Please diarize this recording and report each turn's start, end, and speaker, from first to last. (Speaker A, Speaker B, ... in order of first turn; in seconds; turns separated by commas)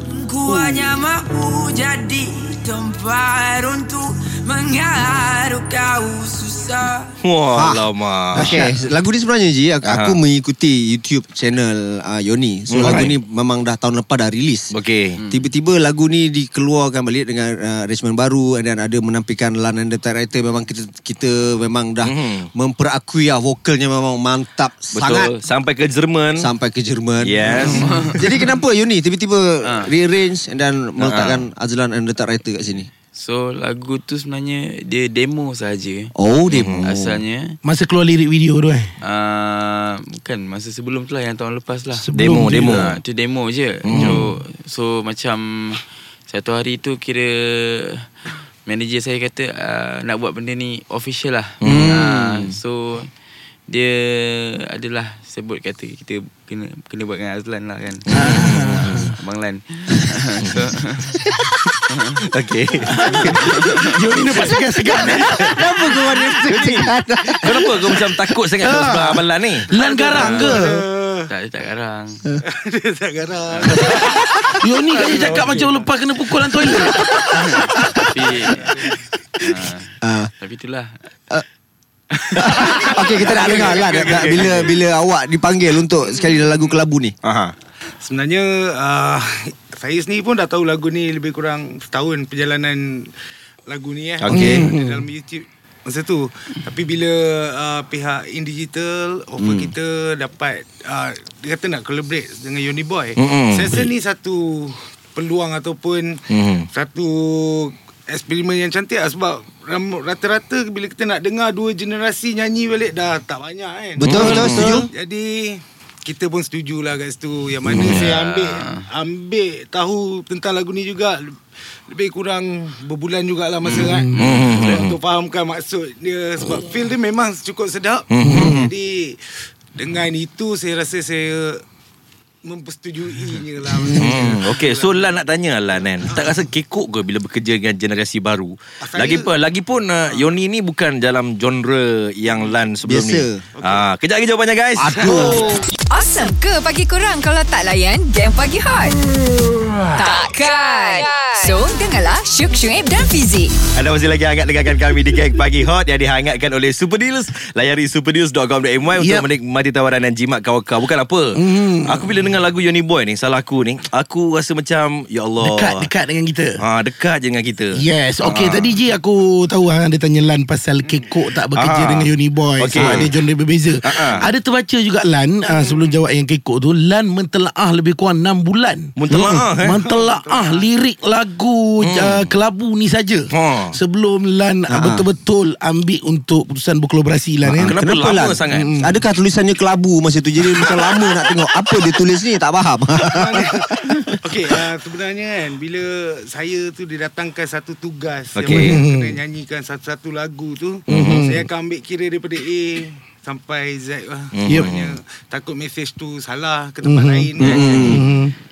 Speaker A: 0.2-7.0, Speaker B: 7.2-8.6, Speaker C: 7.5-14.7, Speaker D: 8.3-8.9, Speaker B: 9.8-10.2, Speaker B: 12.7-13.2, Speaker D: 12.8-13.1, Speaker B: 14.7-15.2, Speaker E: 15.2-15.5, Speaker C: 15.3-25.3, Speaker B: 22.0-22.5, Speaker B: 24.9-26.5, Speaker C: 26.4-32.9, Speaker B: 27.2-27.9, Speaker E: 27.6-28.2, Speaker E: 29.6-29.9, Speaker B: 31.0-31.4, Speaker E: 33.1-36.1, Speaker C: 36.1-37.2, Speaker B: 36.5-36.8, Speaker E: 36.8-37.6, Speaker D: 37.6-38.9, Speaker E: 39.0-48.1, Speaker D: 41.9-42.8, Speaker B: 42.1-43.0, Speaker B: 43.8-44.2, Speaker E: 48.6-53.1, Speaker B: 51.6-52.0, Speaker C: 51.6-52.4, Speaker E: 53.7-58.3, Speaker B: 58.1-59.1, Speaker D: 58.1-59.1, Speaker E: 58.8-61.3, Speaker B: 62.2-63.5, Speaker D: 62.8-65.9, Speaker E: 63.3-63.9, Speaker B: 65.2-66.9, Speaker C: 65.2-67.9, Speaker B: 67.4-69.7, Speaker D: 68.6-70.8, Speaker F: 69.8-71.3, Speaker E: 70.1-70.6, Speaker E: 71.3-72.2, Speaker F: 72.5-74.2, Speaker E: 73.5-74.1, Speaker D: 74.6-78.5, Speaker F: 74.9-75.8, Speaker E: 75.0-75.6, Speaker E: 77.2-78.7, Speaker F: 78.6-79.0, Speaker E: 79.4-80.9, Speaker C: 80.0-80.3, Speaker E: 82.2-83.5, Speaker C: 82.4-87.1, Speaker B: 83.2-84.8, Speaker B: 87.2-87.5, Speaker F: 88.0-93.1, Speaker F: 93.7-106.2, Speaker B: 94.2-94.7, Speaker D: 94.3-95.0, Speaker B: 99.4-99.7, Speaker B: 103.2-103.9, Speaker B: 106.3-106.7, Speaker F: 106.7-121.3, Speaker C: 114.0-114.9, Speaker B: 114.0-114.7, Speaker D: 114.1-114.9, Speaker B: 117.7-118.1, Speaker E: 117.8-118.8, Speaker F: 121.9-129.2, Speaker E: 123.7-124.8, Speaker D: 123.7-124.4, Speaker B: 124.2-125.0, Speaker B: 128.1-128.7, Speaker D: 128.2-128.7, Speaker F: 129.8-131.6, Speaker F: 132.4-135.1, Speaker D: 133.8-134.2, Speaker B: 133.9-145.5, Speaker F: 138.8-139.3, Speaker C: 142.8-143.4, Speaker F: 143.6-143.8, Speaker C: 144.8-145.6, Speaker F: 144.9-145.4, Speaker G: 145.8-149.0, Speaker G: 149.9-153.5, Speaker B: 153.7-165.9, Speaker D: 159.0-159.3, Speaker D: 161.3-162.2, Speaker D: 165.4-166.6, Speaker B: 166.6-168.8, Speaker D: 167.7-187.8, Speaker B: 171.5-173.1, Speaker C: 172.8-173.1, Speaker B: 173.8-174.2, Speaker B: 178.9-179.8, Speaker C: 179.1-179.5, Speaker F: 179.8-180.6, Speaker B: 181.8-182.3, Speaker B: 183.3-183.8, Speaker C: 184.7-185.1, Speaker C: 187.4-194.2, Speaker B: 187.6-188.7, Speaker D: 188.5-189.0, Speaker F: 193.1-193.6, Speaker F: 194.2-207.9, Speaker B: 198.3-198.8, Speaker D: 198.5-199.2, Speaker B: 200.9-201.3, Speaker D: 200.9-201.4, Speaker B: 204.3-204.9, Speaker D: 204.4-204.7, Speaker D: 206.8-208.3, Speaker C: 207.4-208.0, Speaker E: 207.6-207.9